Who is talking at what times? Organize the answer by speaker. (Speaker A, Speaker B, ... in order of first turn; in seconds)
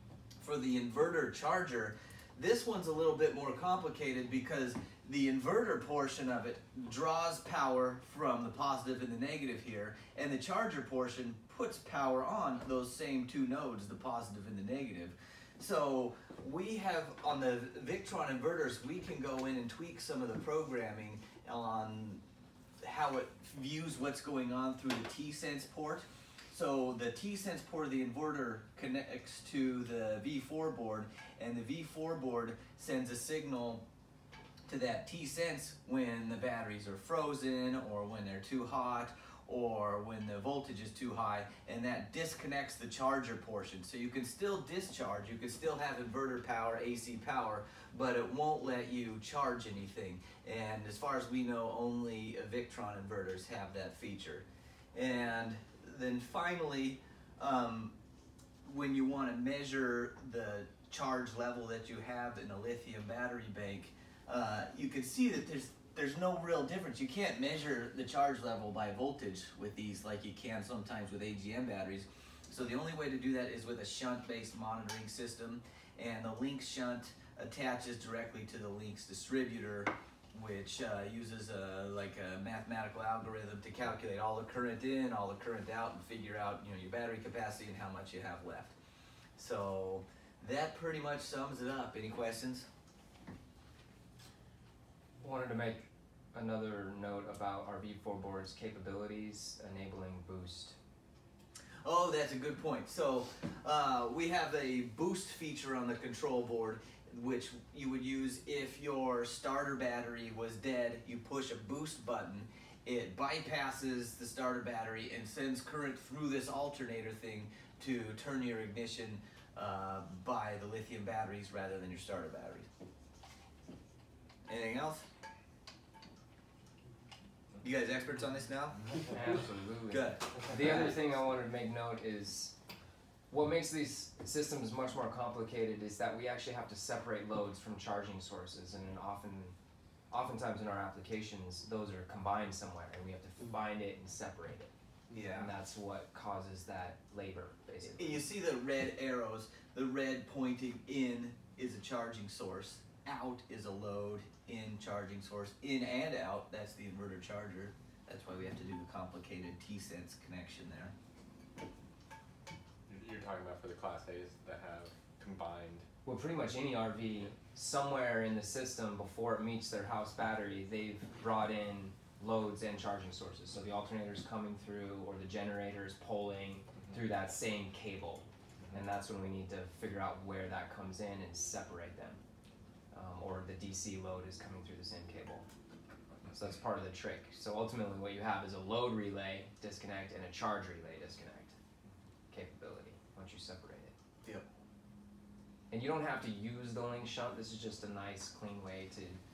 Speaker A: 0.4-22.2, 22.8-33.8, 34.7-57.9, 58.6-88.7, 89.3-92.7, 101.8-122.7, 124.5-125.0, 127.6-128.8, 129.9-131.1, 145.1-145.5, 147.9-160.9
Speaker B: 95.2-100.8, 129.1-132.5, 133.3-139.5, 140.1-144.7, 145.3-148.2, 166.0-182.2, 182.9-185.4, 186.3-191.5, 192.3-193.9, 195.7-199.2
Speaker C: 162.9-165.8